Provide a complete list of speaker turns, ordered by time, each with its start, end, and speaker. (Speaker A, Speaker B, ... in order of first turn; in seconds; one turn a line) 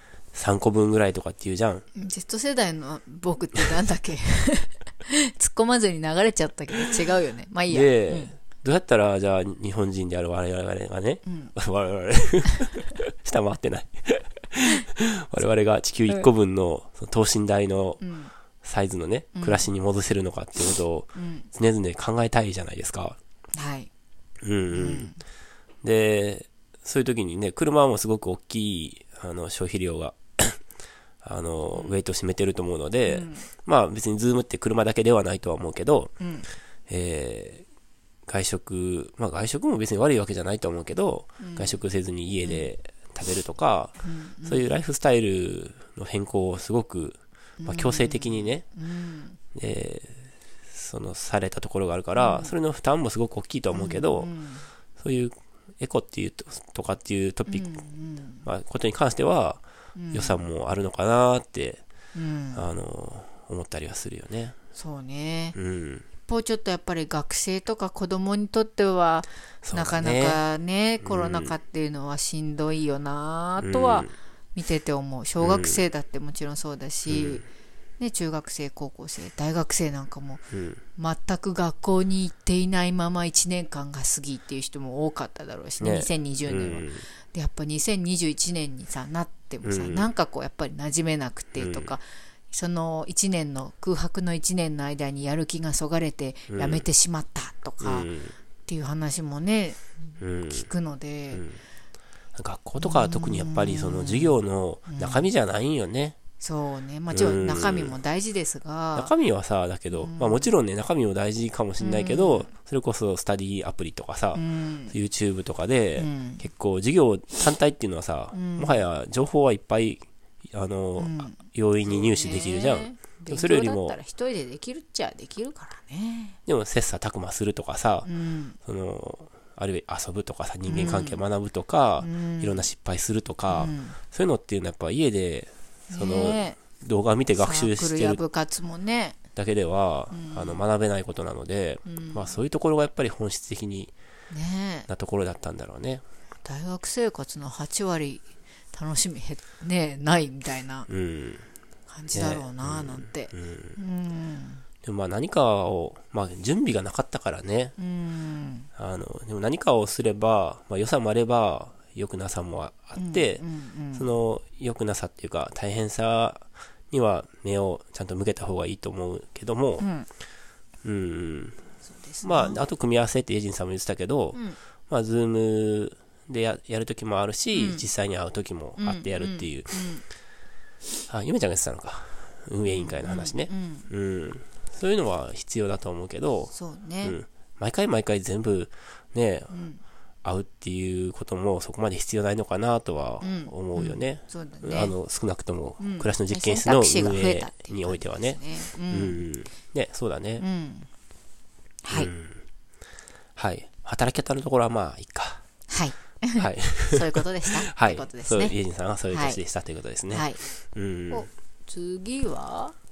Speaker A: 0.3-1.9
Speaker B: 1.9-8.3
Speaker A: 7.7-18.0
Speaker B: 11.2-11.5
Speaker B: 18.0-18.3
Speaker A: 18.6-23.2
Speaker B: 19.4-19.7
Speaker B: 21.1-21.5
Speaker B: 23.6-23.9
Speaker A: 24.4-25.1
Speaker B: 24.7-25.2
Speaker A: 25.8-30.6
Speaker A: 31.2-36.1
Speaker B: 33.1-33.5
Speaker B: 36.2-36.5
Speaker A: 36.9-37.6
Speaker A: 38.3-48.6
Speaker B: 41.4-41.8
Speaker B: 42.4-42.7
Speaker B: 44.0-44.7
Speaker B: 47.6-49.4
Speaker A: 49.5-54.3
Speaker B: 52.2-52.5
Speaker B: 53.7-54.7
Speaker A: 55.0-57.8
Speaker B: 57.5-58.5
Speaker A: 58.4-61.8
Speaker B: 60.0-60.4
Speaker B: 62.1-62.6
Speaker A: 62.5-64.6
Speaker B: 64.8-65.6
Speaker A: 65.5-66.1
Speaker B: 66.3-77.5
Speaker A: 69.6-70.4
Speaker A: 71.0-71.6
Speaker A: 73.6-74.1
Speaker A: 75.4-75.8
Speaker A: 77.1-77.5
Speaker B: 78.0-80.4
Speaker A: 80.5-80.8
Speaker B: 81.0-98.1
Speaker A: 85.8-87.1
Speaker A: 89.6-90.1
Speaker A: 91.6-91.9
Speaker A: 96.5-96.8
Speaker A: 97.8-98.4
Speaker B: 98.7-99.9
Speaker A: 100.2-100.7
Speaker B: 100.5-101.4
Speaker A: 101.3-101.6
Speaker A: 102.3-106.2
Speaker B: 102.8-105.3
Speaker B: 106.4-109.1
Speaker A: 107.1-108.0
Speaker A: 109.0-124.0
Speaker B: 110.0-110.5
Speaker B: 111.8-112.5
Speaker B: 114.3-115.0
Speaker B: 116.0-116.4
Speaker B: 118.3-118.8
Speaker B: 121.0-126.4
Speaker A: 126.5-128.1
Speaker B: 128.0-128.6
Speaker A: 128.6-138.2
Speaker B: 130.7-131.2
Speaker B: 132.0-132.7
Speaker B: 133.5-134.0
Speaker B: 135.9-136.6
Speaker B: 137.4-139.2
Speaker A: 139.3-143.9
Speaker B: 140.1-140.6
Speaker B: 141.9-142.4
Speaker B: 144.3-144.9
Speaker A: 144.9-146.0
Speaker B: 146.4-150.9
Speaker A: 150.9-151.5
Speaker B: 151.9-154.6
Speaker A: 152.1-153.8
Speaker A: 154.8-157.8
Speaker B: 157.8-158.7
Speaker A: 158.8-169.9
Speaker B: 163.0-164.1
Speaker B: 169.8-170.1
Speaker A: 170.8-171.6
Speaker B: 171.9-172.6
Speaker A: 172.2-179.8
Speaker B: 177.5-177.9
Speaker B: 178.8-180.0
Speaker A: 181.1-189.5
Speaker B: 182.7-183.9
Speaker B: 186.5-187.2
Speaker B: 189.5-189.8
Speaker A: 190.2-200.5
Speaker B: 193.2-195.0
Speaker B: 195.8-199.3
Speaker B: 200.4-200.9
Speaker B: 201.8-202.1
Speaker A: 201.9-202.4
Speaker A: 203.4-205.4
Speaker B: 205.7-208.6
Speaker A: 206.4-211.3
Speaker B: 209.1-209.4
Speaker B: 210.1-210.4
Speaker B: 211.1-212.8